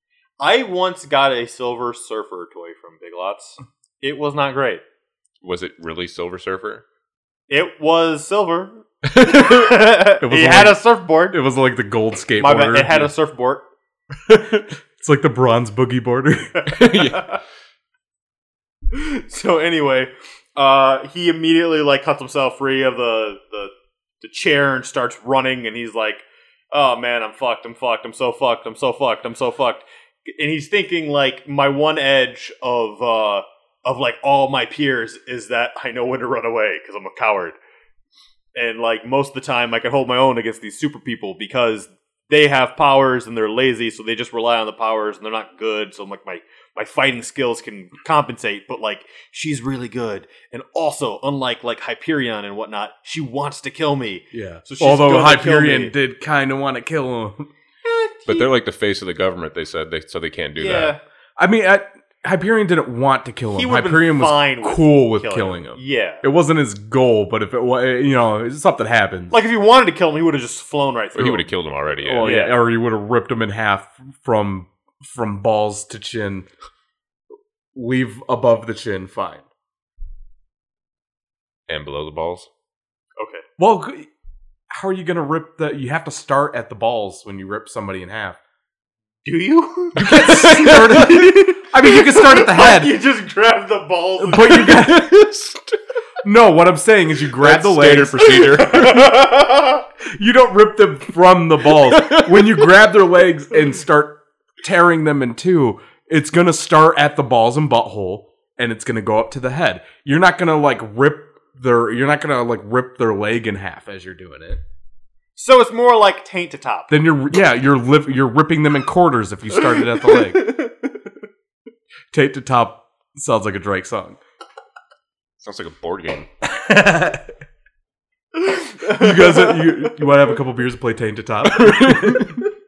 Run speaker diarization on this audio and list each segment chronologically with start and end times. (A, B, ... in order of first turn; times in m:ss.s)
0:00.4-0:04.8 A
0:05.4-0:06.8 B
0:07.5-0:11.4 A
0:09.2-0:09.5 B
0:10.2-0:13.1 C
0:12.4-0:13.6 A
0:15.0-0:16.7 C
0:16.6-0:17.4 A
0:16.7-0:17.3 B
0:18.9-0:37.6 A
0:38.6-0:55.9 A
0:54.3-0:57.5 C
0:57.8-0:58.5 A
0:58.3-1:00.9 B
1:00.6-1:01.0 A
1:01.4-1:09.4 C
1:03.5-1:06.2 A
1:09.3-1:11.5 A
1:11.2-1:12.3 B
1:12.0-1:16.5 C
1:12.2-1:12.6 A
1:17.7-1:19.4 C
1:21.7-1:22.5 B
1:23.2-1:23.4 A
1:23.6-1:24.1 C
1:24.7-1:28.4 C
1:29.2-1:34.8 A
1:30.0-1:33.0 C
1:30.0-1:31.3 B
1:34.2-1:35.2 C
1:34.7-1:35.8 B
1:36.2-1:38.9 C
1:37.3-1:39.0 B
1:38.6-1:39.8 A
1:40.1-1:54.6 C
1:41.9-1:42.6 B
1:55.4-1:56.9 A
1:56.9-2:00.5 C
2:00.0-2:01.0 A
2:02.1-2:04.2 C
2:05.4-2:06.3 B
2:06.4-2:07.3 C
2:08.4-2:10.0 A
2:08.8-2:12.4 C
2:11.4-2:12.4 B